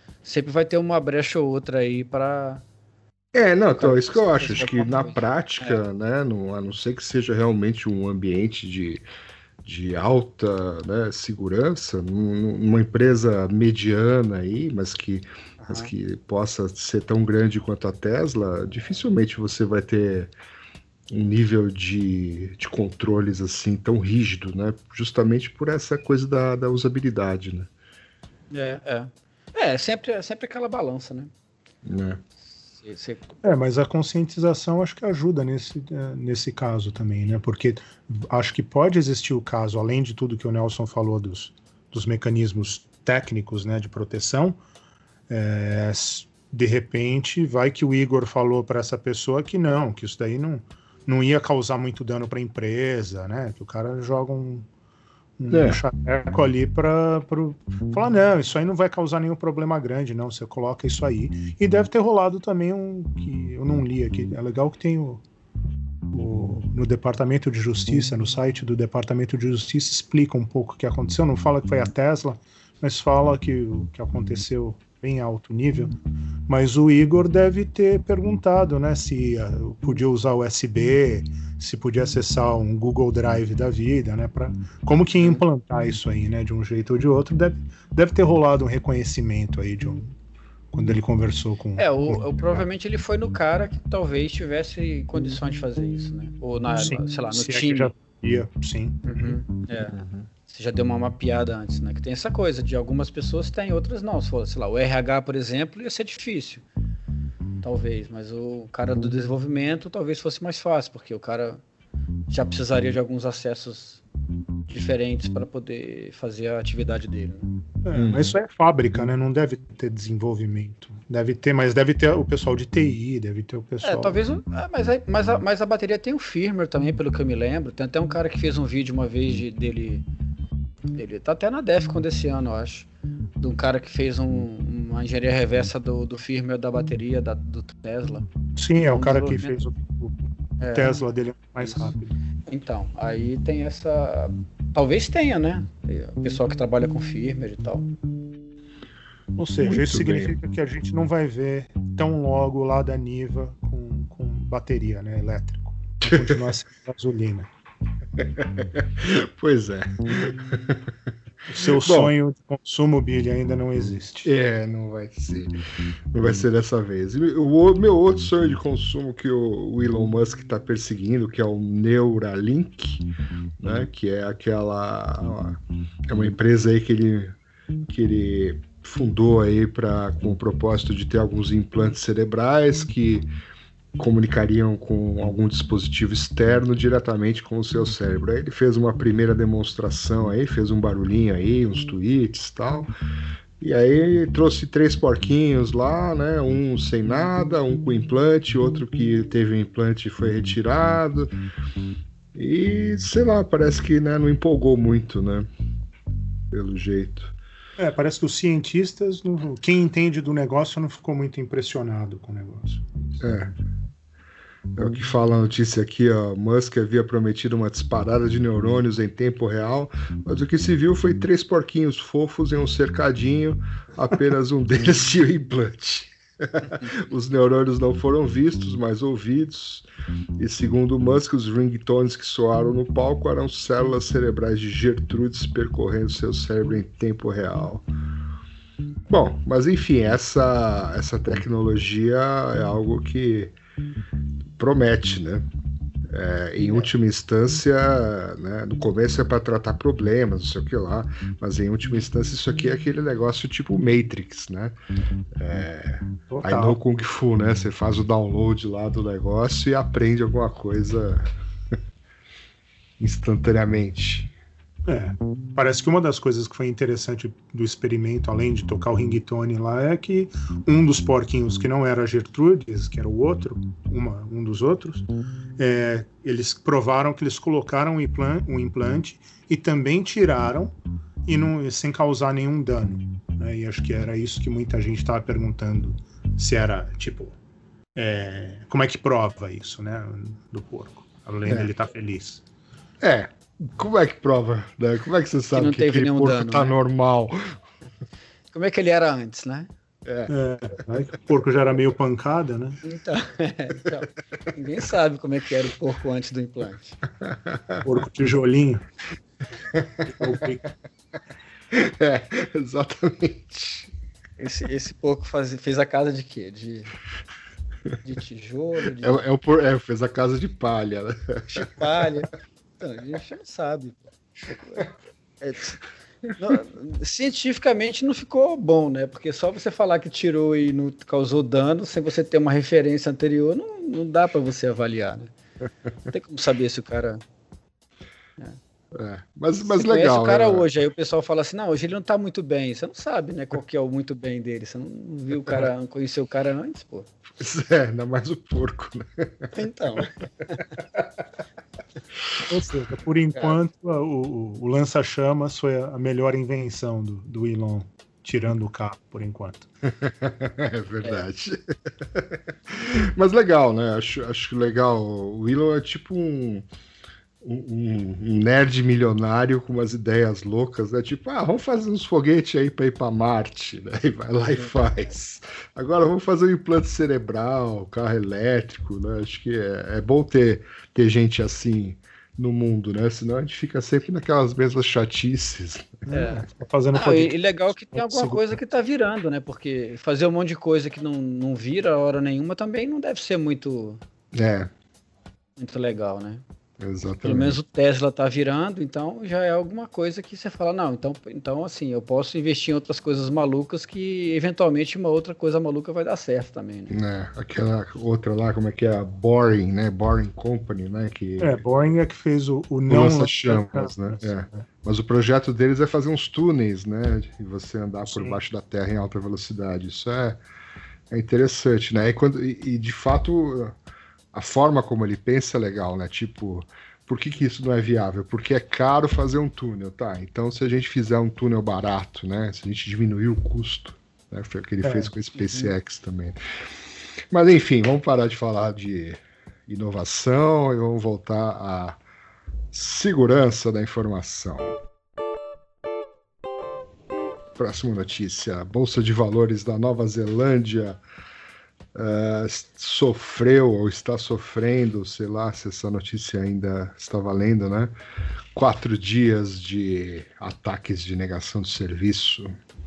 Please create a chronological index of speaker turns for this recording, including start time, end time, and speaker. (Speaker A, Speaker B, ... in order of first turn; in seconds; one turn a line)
Speaker A: 0.2-2.6
Speaker B: 3.3-9.1
Speaker A: 3.7-5.8
Speaker B: 9.6-20.3
Speaker A: 15.6-15.9
Speaker B: 21.1-27.7
Speaker A: 28.5-31.3
Speaker B: 31.9-32.2
Speaker A: 32.8-33.3
Speaker C: 33.4-44.6
Speaker C: 45.3-54.7
Speaker C: 55.4-65.2
Speaker B: 55.5-55.8
Speaker C: 66.1-75.9
Speaker C: 76.5-90.1
Speaker A: 85.2-85.4
Speaker C: 90.7-92.6
Speaker A: 91.8-97.9
Speaker C: 96.8-99.0
Speaker A: 99.0-106.7
Speaker B: 99.9-100.3
Speaker A: 107.6-111.6
Speaker A: 112.3-114.0
Speaker A: 114.7-117.5
Speaker C: 117.8-124.2
Speaker B: 117.9-118.3
Speaker A: 123.8-130.1
Speaker A: 130.9-132.9
Speaker A: 133.4-138.2
Speaker C: 138.6-140.2
Speaker A: 138.9-139.6
Speaker A: 140.6-141.0
Speaker C: 140.7-142.2
Speaker A: 141.6-141.9
Speaker A: 142.5-147.9
Speaker C: 149.4-157.5
Speaker B: 149.6-150.3
Speaker B: 156.1-156.4
Speaker B: 158.2-160.9
Speaker C: 161.5-164.3
Speaker B: 161.7-162.2
Speaker B: 164.2-165.6
Speaker B: 166.1-173.1
Speaker B: 173.6-183.3
Speaker B: 184.0-192.9
Speaker B: 193.6-201.3
Speaker B: 202.3-205.5
Speaker B: 206.5-207.3
Speaker C: 207.8-213.2
Speaker B: 213.2-213.5
Speaker B: 214.8-229.9
Speaker A: 226.7-226.9
Speaker B: 230.4-237.9
Speaker B: 239.1-243.6
Speaker B: 244.6-245.5
Speaker B: 246.1-254.8
Speaker B: 255.4-261.3
Speaker C: 256.3-256.8
Speaker B: 263.0-264.3
Speaker C: 264.9-275.1
Speaker C: 275.6-280.8
Speaker C: 281.3-287.4
Speaker C: 287.9-292.4
Speaker B: 293.0-297.6
Speaker A: 295.5-296.7
Speaker A: 298.5-299.7
Speaker B: 300.1-300.3
Speaker C: 300.3-302.8
Speaker A: 302.8-307.0
Speaker B: 307.2-307.8
Speaker C: 307.8-308.9
Speaker B: 309.7-310.4
Speaker C: 310.1-310.7
Speaker B: 311.7-313.9
Speaker A: 314.4-316.9
Speaker A: 318.0-319.2
Speaker B: 319.0-321.7
Speaker A: 321.5-325.8
Speaker A: 326.4-335.3
Speaker A: 336.1-337.2
Speaker B: 338.9-340.7
Speaker A: 339.6-347.1
Speaker B: 347.4-349.5
Speaker A: 349.6-350.7
Speaker C: 352.5-359.7
Speaker B: 359.9-366.7
Speaker B: 367.4-386.4
Speaker C: 386.1-387.4
Speaker A: 386.1-394.0
Speaker C: 387.9-388.5
Speaker B: 394.3-394.7
Speaker A: 395.6-396.4
Speaker B: 396.8-397.6
Speaker A: 397.2-406.9
Speaker B: 406.9-411.6
Speaker C: 411.4-414.7
Speaker B: 412.9-420.4
Speaker C: 418.1-418.4
Speaker B: 421.1-423.8
Speaker B: 424.3-436.4
Speaker C: 434.8-435.1
Speaker A: 435.4-435.7
Speaker B: 437.3-442.0
Speaker B: 442.7-444.8
Speaker B: 447.6-451.0
Speaker B: 451.9-457.9
Speaker B: 458.5-462.6